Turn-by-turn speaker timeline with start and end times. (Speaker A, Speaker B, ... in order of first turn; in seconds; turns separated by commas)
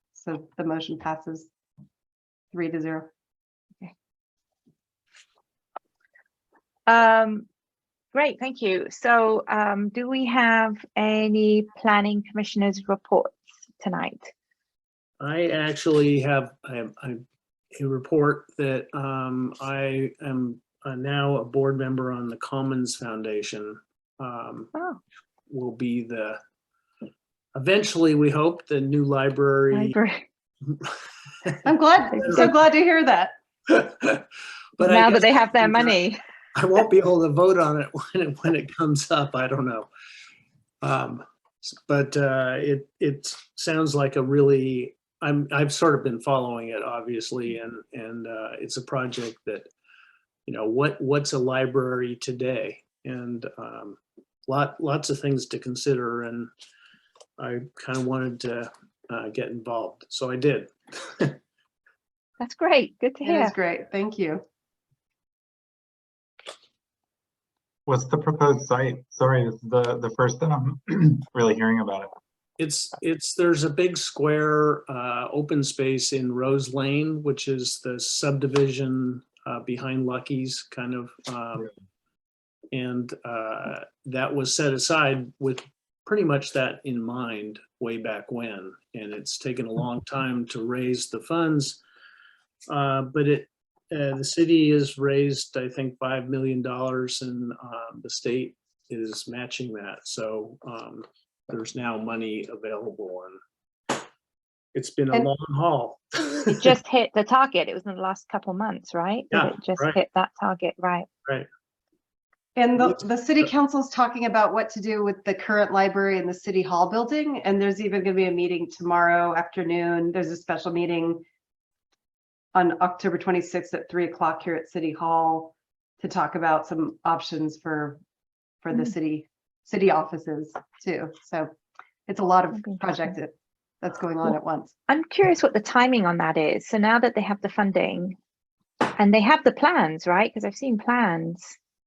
Speaker A: 0.1-1.5, Speaker A: 2.5-3.1, Speaker B: 6.9-7.5, Speaker B: 8.1-14.3, Speaker C: 15.2-17.2, Speaker C: 17.7-24.7, Speaker C: 25.5-26.4, Speaker C: 27.6-30.0, Speaker B: 29.7-30.2, Speaker C: 30.7-30.9, Speaker A: 31.6-33.3, Speaker C: 32.2-32.5, Speaker C: 33.7-34.3, Speaker C: 34.8-36.0, Speaker B: 34.8-36.2, Speaker C: 36.5-39.9, Speaker C: 40.8-49.7, Speaker C: 50.5-56.5, Speaker C: 57.4-61.4, Speaker B: 62.4-63.5, Speaker A: 63.2-64.4, Speaker D: 67.9-72.1, Speaker C: 72.6-81.7, Speaker C: 82.7-91.8, Speaker C: 92.7-103.4, Speaker C: 104.7-106.6, Speaker B: 106.5-111.1, Speaker C: 109.3-110.0, Speaker A: 112.6-121.2, Speaker A: 122.5-128.0, Speaker A: 128.6-131.5, Speaker A: 132.1-134.7, Speaker B: 132.6-133.1, Speaker B: 134.9-138.2, Speaker B: 139.0-141.6